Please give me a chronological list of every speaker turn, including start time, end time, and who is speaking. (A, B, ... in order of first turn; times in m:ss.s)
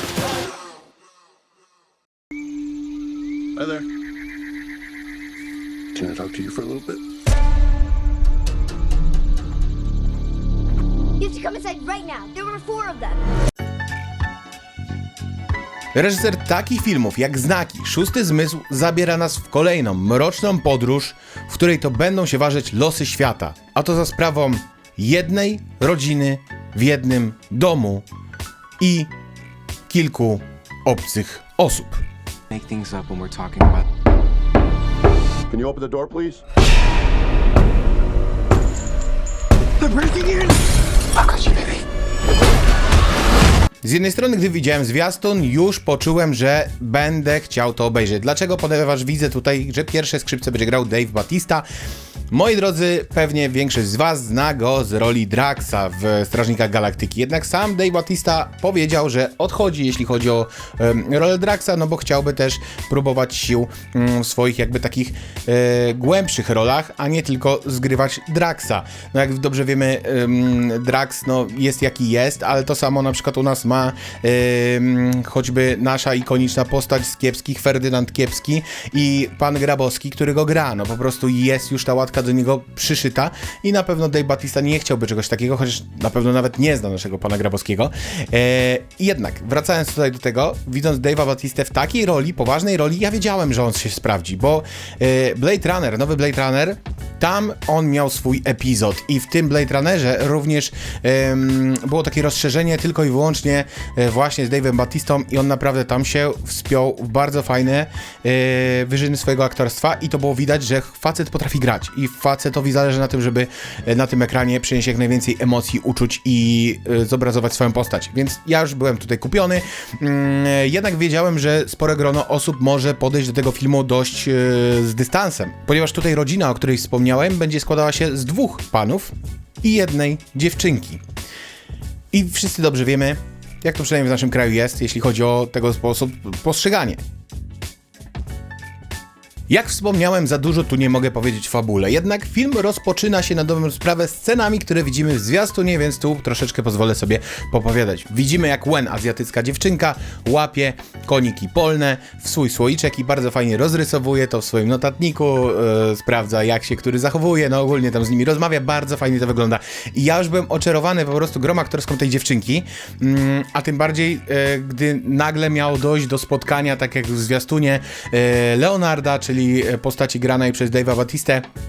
0:03.6-0:03.8 A
0:05.9-0:07.0 A
0:11.2-0:13.2 B
0:15.9-0:28.1 C
0:28.8-0:29.1 C
0:29.9-0:32.0 C
0:32.5-0:33.8 D
0:35.5-0:36.4 A
0:39.8-0:40.5 D
0:41.2-0:41.8 D
0:43.8-0:51.7 C
0:52.3-2:11.0 C
2:12.1-2:17.0 C
2:19.5-2:51.5 C